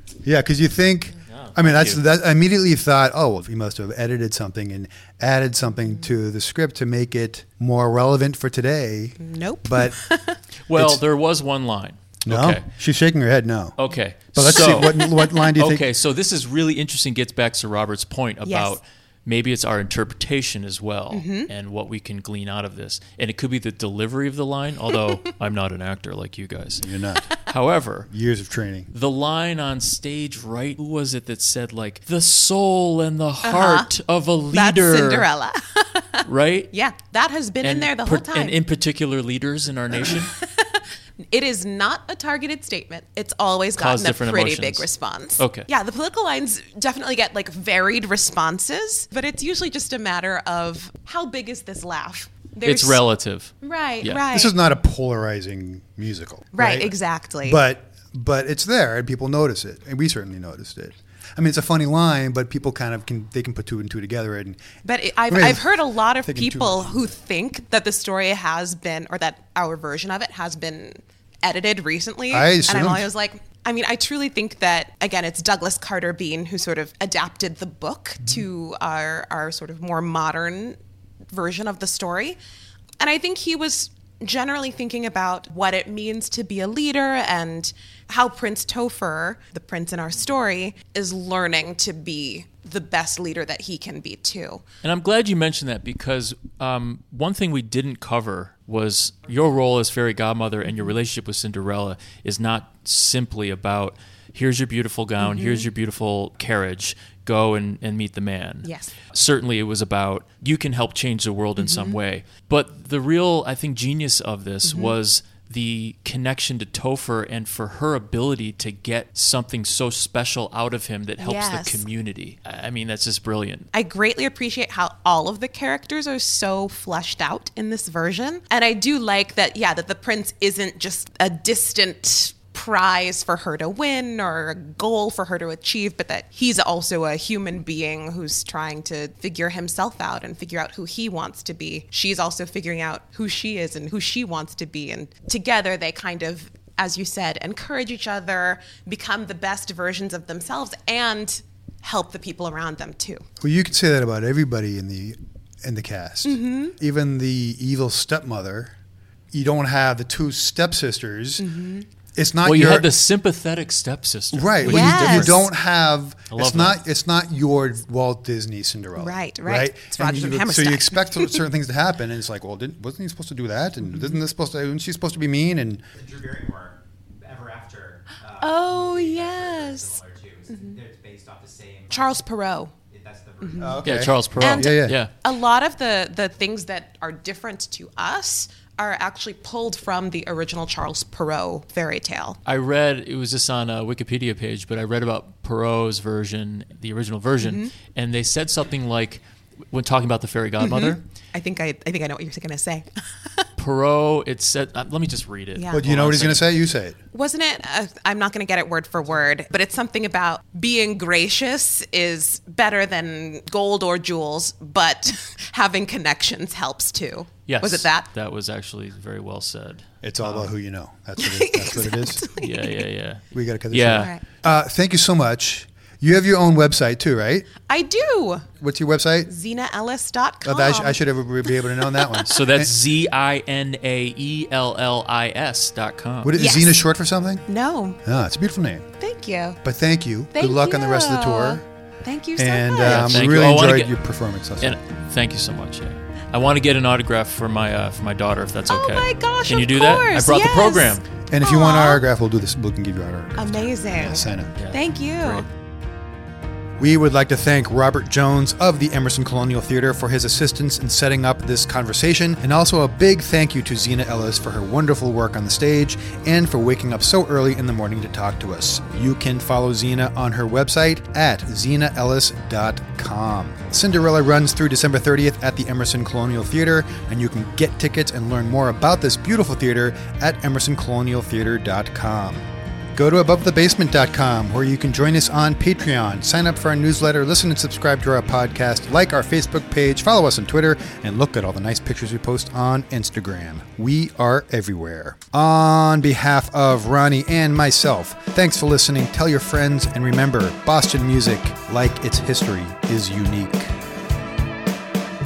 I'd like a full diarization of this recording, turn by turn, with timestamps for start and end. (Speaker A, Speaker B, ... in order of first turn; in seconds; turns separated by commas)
Speaker A: 0.2-10.0, Speaker B: 1.3-2.0, Speaker C: 9.2-10.4, Speaker B: 10.7-12.7, Speaker A: 10.7-11.0, Speaker A: 12.2-13.8, Speaker B: 13.8-28.1, Speaker A: 14.3-15.9, Speaker C: 15.0-15.3, Speaker C: 18.4-18.8, Speaker C: 21.1-21.5, Speaker C: 24.9-25.3, Speaker A: 26.8-27.3, Speaker A: 28.1-28.9, Speaker B: 28.9-35.3, Speaker C: 33.4-33.9, Speaker C: 34.5-38.6, Speaker B: 36.3-36.7, Speaker B: 37.6-40.3, Speaker C: 40.3-53.0, Speaker B: 43.8-44.9, Speaker B: 45.4-45.7, Speaker B: 52.6-54.2, Speaker C: 53.6-54.5, Speaker A: 54.3-56.9, Speaker C: 56.5-57.6, Speaker A: 57.5-64.6, Speaker C: 64.8-80.8, Speaker A: 65.3-67.1, Speaker A: 72.3-73.1, Speaker C: 81.3-82.4, Speaker C: 83.0-94.6, Speaker B: 94.8-123.7, Speaker C: 105.2-105.7, Speaker C: 108.6-108.9, Speaker C: 111.6-112.0, Speaker C: 114.7-115.0, Speaker C: 121.2-121.8, Speaker C: 123.7-153.2, Speaker A: 153.4-158.7, Speaker C: 156.2-156.8, Speaker A: 159.3-161.4, Speaker C: 161.4-161.9, Speaker A: 162.2-162.9, Speaker B: 162.4-165.4, Speaker A: 164.3-175.8, Speaker C: 164.6-165.5, Speaker B: 166.3-166.8, Speaker C: 169.0-171.4, Speaker D: 175.9-182.0, Speaker C: 178.4-180.8, Speaker C: 181.9-182.7, Speaker D: 182.9-183.8, Speaker C: 183.4-183.8, Speaker A: 183.6-185.0, Speaker B: 183.8-185.1, Speaker C: 184.4-192.4, Speaker B: 192.5-199.2, Speaker C: 197.4-197.7, Speaker B: 199.7-201.0, Speaker C: 200.6-203.5, Speaker B: 203.6-206.4, Speaker C: 205.6-205.8, Speaker A: 205.7-207.0, Speaker C: 207.1-218.1, Speaker B: 217.5-220.5, Speaker A: 220.0-222.2, Speaker C: 221.2-222.8, Speaker B: 222.4-224.1, Speaker A: 223.3-227.5, Speaker C: 224.0-224.2, Speaker C: 227.7-228.5, Speaker A: 228.6-229.3, Speaker C: 229.3-232.3, Speaker A: 230.4-232.8, Speaker B: 232.3-236.3, Speaker A: 236.2-237.4, Speaker C: 236.4-236.8, Speaker C: 237.5-238.0, Speaker A: 238.0-238.9, Speaker C: 239.0-239.6, Speaker A: 239.6-241.7, Speaker C: 240.3-243.2, Speaker A: 242.4-244.8, Speaker B: 242.8-243.9, Speaker B: 244.6-251.1, Speaker C: 248.7-252.0, Speaker A: 251.3-254.5, Speaker C: 253.4-255.4, Speaker B: 254.6-255.5, Speaker A: 256.8-303.7